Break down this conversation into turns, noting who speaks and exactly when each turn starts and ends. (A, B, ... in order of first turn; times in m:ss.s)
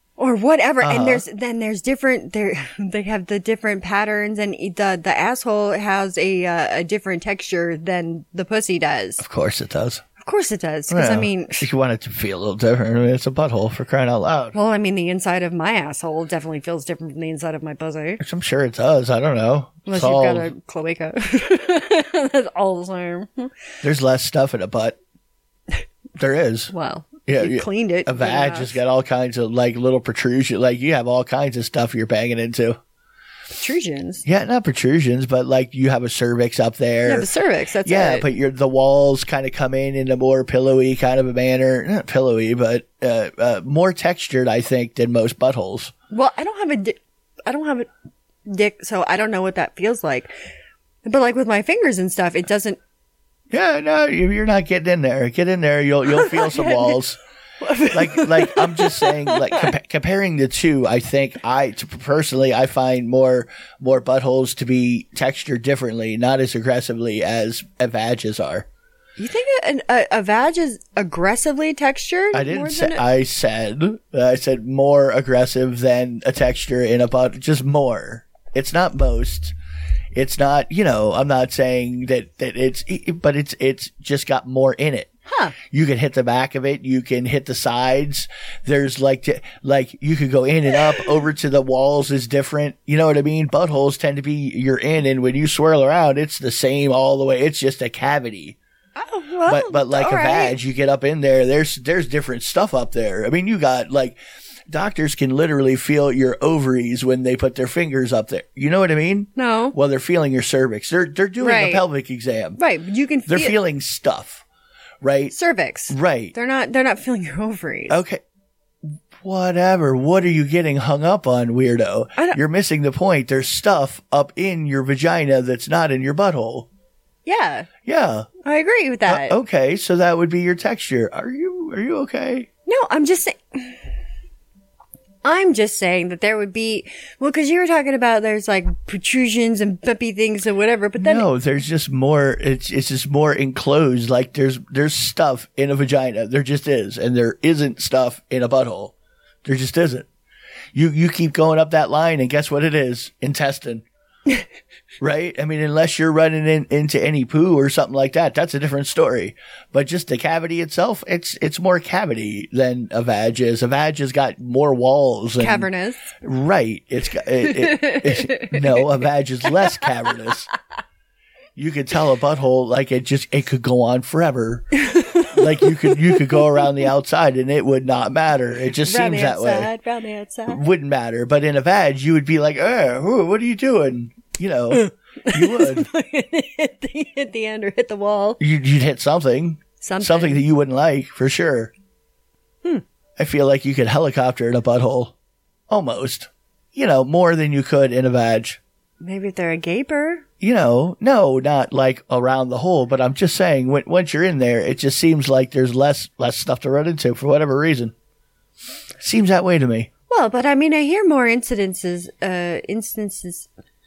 0:00.2-0:09.2 A
0:00.8-0:01.2 B
0:09.2-0:10.0 B
0:10.2-0:11.7 A
0:10.9-0:14.5 B
0:14.5-0:18.2 A
0:18.2-0:20.5 B
0:19.9-0:23.5 A
0:23.8-0:25.0 B
0:26.2-0:26.7 B
0:26.7-0:28.8 A
0:27.2-0:32.8 B
0:33.5-0:34.2 A
0:34.2-0:37.3 B
0:37.0-0:38.3 A
0:37.8-0:45.9 B
0:46.1-0:47.9 A
0:48.4-0:50.3 A
0:51.0-0:52.8 A
0:53.5-0:57.2 B
0:56.1-0:57.0 A
0:57.6-0:59.7 A
0:57.9-1:08.6 B
1:09.2-1:13.0 A
1:12.3-1:19.5 B
1:20.1-1:38.6 B
1:25.3-1:25.5 A
1:39.0-1:40.6 A
1:39.4-1:52.6 B
1:49.4-1:49.8 A
1:51.4-1:51.8 A
1:52.6-1:53.6 A
1:53.3-1:54.4 B
1:55.0-1:55.4 B
1:55.3-1:58.0 A
1:55.9-1:56.3 B
1:57.9-1:58.2 B
1:59.2-2:06.7 B
2:02.2-2:02.4 A
2:07.2-2:07.7 A
2:07.8-2:08.3 B
2:08.4-2:09.4 A
2:09.1-2:12.5 B
2:12.7-2:13.8 A
2:15.2-2:21.3 A
2:21.0-2:28.9 B
2:29.4-2:30.1 B
2:30.7-2:33.8 B
2:35.0-2:45.7 B
2:45.4-2:46.1 A
2:46.2-2:50.5 B
2:47.4-2:48.8 A
2:51.6-2:59.7 B
2:54.8-2:56.4 A
2:58.8-3:00.6 A
3:00.5-3:05.9 B
3:04.7-3:08.4 A
3:08.4-3:11.7 B
3:09.8-3:10.4 A
3:13.2-3:15.1 B
3:15.7-3:18.6 B
3:19.0-3:20.2 A
3:20.4-3:27.9 B
3:29.0-3:29.9 B
3:30.1-3:33.5 A